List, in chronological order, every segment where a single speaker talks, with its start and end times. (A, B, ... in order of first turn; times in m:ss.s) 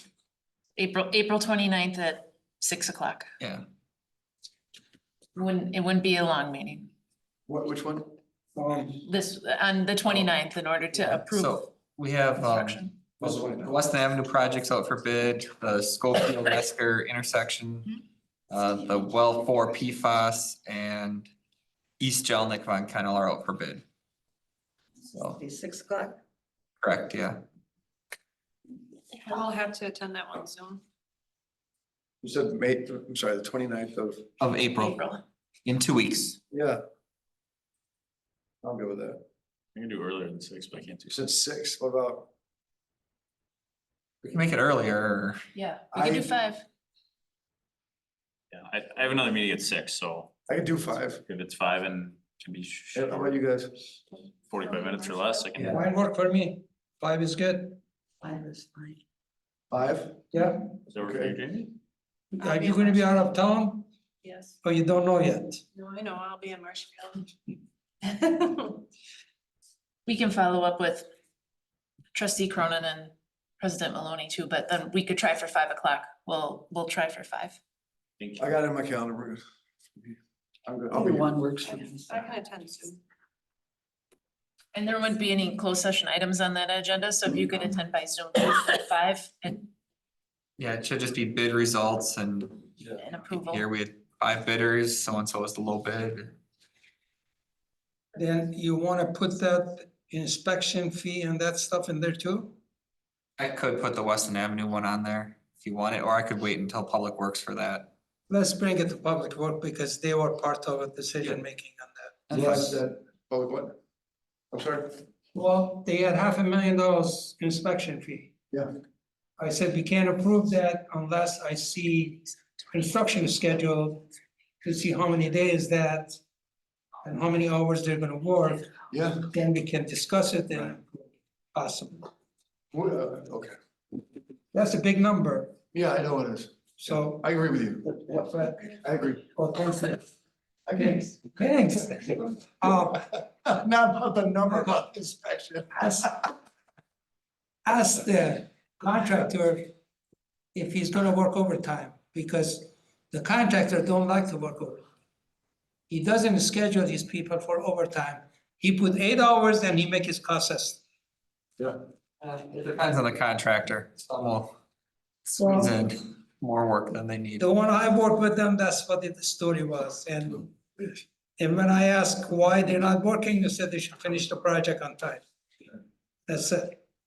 0:00.8-0:03.3 A
0:05.4-0:06.9 A
0:07.5-0:08.1 B
0:08.6-0:08.9 C
0:09.0-0:11.7 A
0:11.1-0:18.0 D
0:12.4-0:12.9 A
0:13.2-0:13.7 B
0:18.5-0:21.3 D
0:22.0-0:23.8 D
0:25.1-0:25.4 D
0:25.4-0:26.2 E
0:26.8-0:27.4 D
0:29.2-0:30.8 F
0:32.2-0:34.2 B
0:34.4-0:35.0 D
0:34.8-0:35.2 A
0:35.6-0:36.4 D
0:36.5-0:36.8 B
0:38.6-0:39.2 B
0:39.7-0:41.1 G
0:41.0-0:42.3 B
0:44.2-0:45.4 D
0:45.5-0:46.6 A
0:45.9-0:46.3 B
0:48.5-0:50.3 G
0:50.5-0:51.2 B
0:51.3-0:53.4 G
0:52.9-0:53.9 B
0:54.5-0:55.8 G
0:54.6-0:55.5 F
0:55.6-0:57.8 C
0:58.2-0:59.0 E
0:59.7-1:00.2 B
1:00.3-1:00.7 C
1:00.9-1:01.7 G
1:01.0-1:01.4 B
1:02.4-1:03.9 C
1:02.4-1:03.2 F
1:04.2-1:04.5 F
1:04.6-1:05.6 C
1:05.8-1:07.3 F
1:08.0-1:08.8 F
1:10.0-1:11.1 A
1:12.1-1:17.6 A
1:18.2-1:18.6 G
1:18.4-1:19.4 B
1:20.0-1:21.3 B
1:20.9-1:22.3 E
1:22.1-1:23.0 F
1:24.7-1:29.7 A
1:30.6-1:32.6 D
1:33.0-1:33.6 A
1:33.2-1:36.3 D
1:38.1-1:42.5 C
1:43.4-1:47.9 D
1:48.3-1:52.6 C
1:52.3-1:52.7 D
1:52.3-1:53.8 B
1:54.5-1:55.0 B
1:55.3-1:58.3 C
1:59.4-2:04.1 C
2:04.6-2:06.2 C
2:07.0-2:08.7 C
2:08.9-2:09.3 B
2:09.3-2:12.1 C
2:12.7-2:13.5 B
2:14.5-2:15.6 C
2:15.7-2:17.9 B
2:16.8-2:17.2 C
2:17.9-2:18.6 C
2:18.6-2:19.3 B
2:19.4-2:20.0 C
2:20.7-2:21.1 B
2:20.8-2:23.1 C
2:23.4-2:26.3 B
2:27.6-2:29.7 C
2:30.5-2:34.8 C
2:35.9-2:40.8 C
2:42.2-2:44.5 D
2:45.3-2:47.5 D
2:47.4-2:50.5 C
2:51.4-2:55.2 C
2:56.3-2:56.8 C